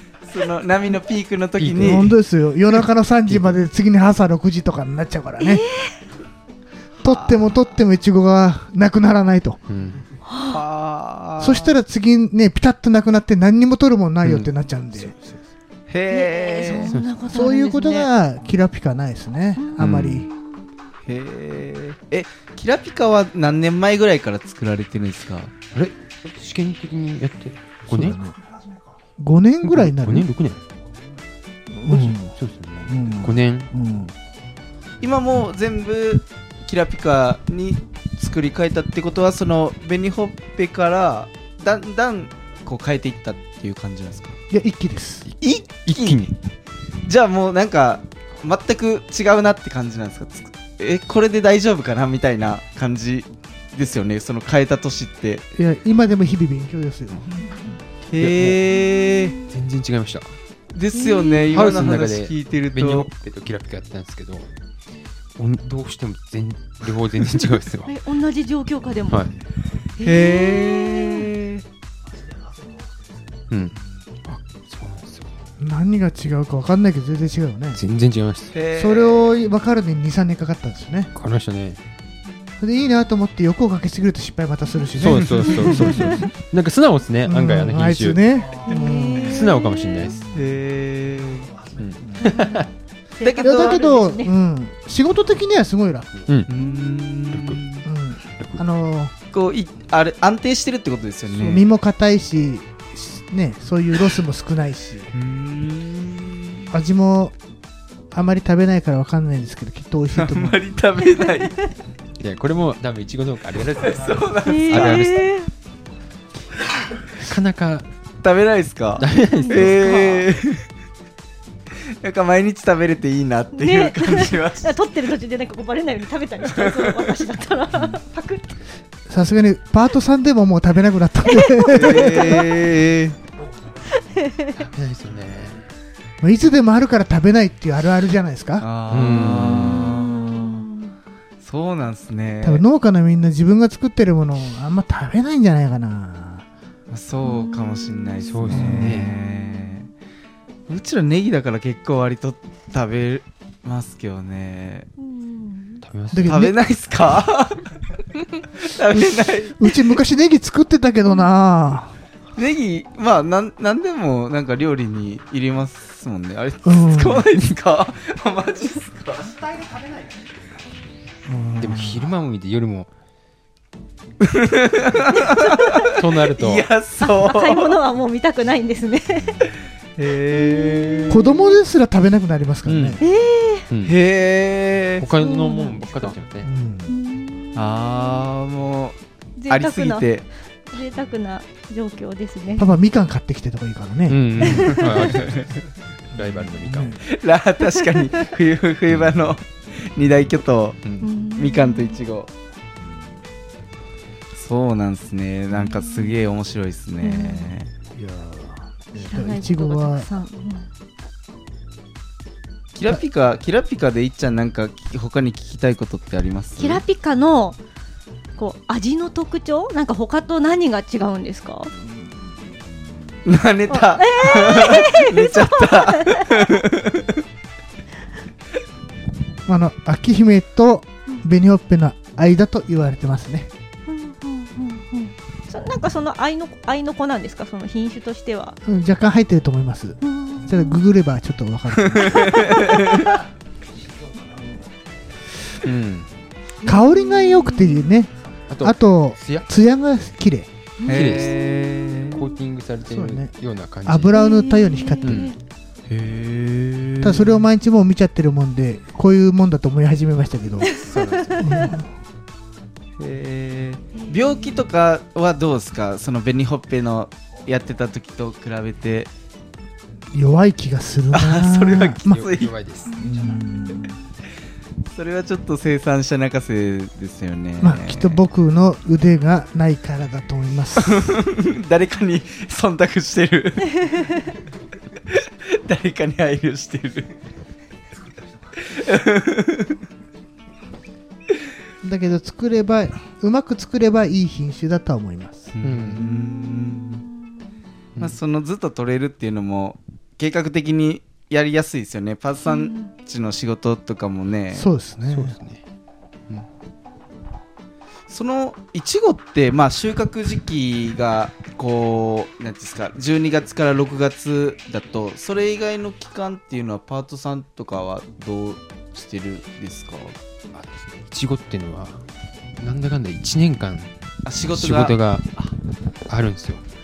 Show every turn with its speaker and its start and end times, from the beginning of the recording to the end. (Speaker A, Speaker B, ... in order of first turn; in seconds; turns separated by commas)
Speaker A: 0.2-2.1, Speaker B: 1.6-2.1, Speaker C: 1.7-5.6, Speaker B: 3.2-3.6, Speaker D: 5.4-5.9, Speaker A: 7.0-7.6, Speaker C: 7.0-9.6, Speaker B: 9.7-10.0, Speaker D: 10.3-10.6, Speaker A: 10.5-11.7, Speaker C: 11.4-15.1, Speaker B: 14.2-15.4, Speaker A: 15.9-16.9, Speaker D: 16.1-18.1, Speaker B: 16.9-17.2, Speaker C: 17.3-20.3, Speaker D: 19.6-20.3, Speaker B: 19.8-20.3, Speaker A: 21.0-25.5, Speaker B: 25.7-28.2, Speaker C: 27.9-28.4, Speaker C: 29.2-30.3, Speaker B: 29.6-30.6, Speaker C: 31.7-32.3, Speaker B: 31.9-33.7, Speaker C: 32.9-34.1, Speaker A: 35.0-44.4, Speaker C: 44.5-45.2, Speaker B: 45.2-46.3, Speaker A: 45.4-46.3, Speaker A: 47.0-55.4, Speaker C: 55.5-57.3, Speaker A: 58.1-59.4, Speaker B: 58.2-58.6, Speaker B: 59.5-60.3, Speaker A: 60.7-63.1, Speaker D: 60.9-61.5, Speaker B: 61.5-64.5, Speaker B: 65.3-67.9, Speaker D: 67.8-69.3, Speaker A: 70.0-71.6, Speaker D: 70.0-71.3, Speaker B: 73.5-75.3, Speaker C: 75.6-77.8, Speaker B: 77.7-78.5, Speaker A: 78.5-79.4, Speaker C: 78.7-81.1, Speaker B: 81.1-81.8, Speaker C: 82.6-86.2, Speaker B: 85.0-88.2, Speaker A: 85.0-85.5, Speaker D: 85.8-86.2, Speaker C: 87.2-89.4, Speaker D: 88.7-90.2, Speaker B: 89.1-90.2, Speaker C: 90.1-90.4, Speaker A: 90.3-91.6, Speaker B: 91.8-92.7, Speaker D: 92.2-92.7, Speaker D: 93.2-94.3, Speaker A: 93.2-93.9, Speaker C: 93.4-96.2, Speaker B: 96.3-96.5, Speaker A: 96.5-97.9, Speaker B: 97.3-97.6, Speaker C: 97.8-99.1, Speaker B: 98.4-98.6, Speaker A: 99.3-101.7, Speaker C: 101.3-105.1, Speaker A: 105.1-106.7, Speaker C: 106.7-107.3, Speaker C: 108.1-110.6, Speaker A: 110.1-111.6, Speaker B: 112.2-115.2, Speaker A: 113.8-115.1, Speaker D: 114.4-115.5, Speaker B: 117.2-117.9, Speaker A: 118.2-120.6, Speaker B: 119.0-119.9, Speaker D: 119.3-120.2, Speaker A: 121.7-124.8, Speaker D: 123.5-128.6, Speaker A: 126.5-127.1, Speaker C: 129.1-132.5, Speaker D: 131.3-132.5, Speaker A: 131.7-133.2, Speaker D: 133.9-134.6, Speaker B: 134.6-135.7, Speaker C: 136.2-138.7, Speaker A: 138.6-140.7, Speaker B: 138.9-140.0, Speaker D: 139.8-140.9, Speaker A: 141.4-142.6, Speaker C: 142.4-146.4, Speaker A: 146.9-149.9, Speaker D: 147.3-148.2, Speaker B: 148.2-149.2, Speaker C: 148.5-149.1, Speaker A: 150.7-154.9, Speaker D: 155.0-155.8, Speaker B: 155.8-156.5, Speaker C: 156.1-156.5, Speaker A: 156.2-159.9, Speaker C: 158.9-161.9, Speaker A: 162.3-169.6, Speaker C: 166.6-167.3, Speaker C: 171.3-172.1, Speaker B: 171.6-172.9, Speaker A: 174.2-177.8, Speaker B: 175.9-176.7, Speaker D: 177.0-179.4, Speaker A: 180.0-181.3, Speaker D: 180.3-181.6, Speaker C: 181.1-183.0, Speaker B: 182.7-183.0, Speaker D: 183.0-183.7, Speaker B: 183.7-184.0, Speaker A: 183.8-185.1, Speaker B: 185.0-186.5, Speaker D: 185.1-186.1, Speaker C: 186.4-186.9, Speaker D: 186.9-188.2, Speaker A: 187.5-189.0, Speaker D: 189.4-190.1, Speaker A: 189.5-190.2, Speaker D: 190.7-192.7, Speaker C: 192.6-194.7, Speaker B: 194.1-195.6, Speaker D: 194.4-195.1, Speaker A: 195.1-195.4, Speaker B: 196.1-197.0, Speaker C: 196.2-197.0, Speaker A: 197.0-202.3, Speaker D: 201.0-202.0, Speaker A: 204.3-207.7, Speaker D: 205.6-206.2, Speaker D: 207.0-207.5, Speaker C: 207.9-210.1, Speaker D: 208.9-210.7, Speaker A: 212.7-216.8, Speaker D: 216.6-217.6, Speaker D: 218.4-221.7, Speaker A: 223.2-227.2, Speaker D: 223.7-226.5, Speaker C: 229.4-233.5, Speaker D: 233.8-238.6, Speaker C: 238.7-242.6, Speaker D: 240.0-240.8, Speaker A: 242.0-243.1, Speaker D: 242.2-242.5, Speaker B: 245.6-246.1, Speaker D: 246.6-247.9, Speaker C: 246.6-250.5, Speaker B: 248.5-249.5, Speaker D: 250.8-252.2, Speaker A: 250.8-252.2, Speaker B: 250.9-251.5, Speaker B: 252.0-254.2, Speaker C: 252.8-253.3, Speaker C: 253.8-255.3, Speaker D: 254.1-255.3, Speaker B: 255.0-255.3, Speaker A: 255.9-257.5, Speaker C: 257.0-260.7, Speaker D: 260.6-261.7, Speaker B: 260.8-261.6, Speaker C: 261.4-261.9, Speaker A: 263.0-269.1, Speaker D: 263.9-264.6, Speaker C: 270.1-272.2, Speaker A: 271.1-272.5, Speaker B: 272.1-273.1, Speaker D: 272.9-274.0, Speaker C: 273.0-274.0, Speaker A: 274.8-278.2, Speaker C: 277.6-281.2, Speaker A: 280.8-283.9, Speaker A: 285.1-287.1, Speaker A: 288.5-289.8, Speaker C: 291.8-295.5, Speaker A: 295.5-297.0, Speaker B: 295.6-296.0, Speaker D: 296.1-297.1, Speaker A: 298.0-304.7, Speaker D: 302.5-302.9, Speaker C: 304.5-305.4, Speaker B: 305.1-305.6, Speaker A: 308.1-320.2, Speaker B: 320.5-322.0, Speaker B: 322.6-323.9, Speaker A: 324.2-325.0, Speaker B: 324.5-325.5, Speaker B: 326.1-326.6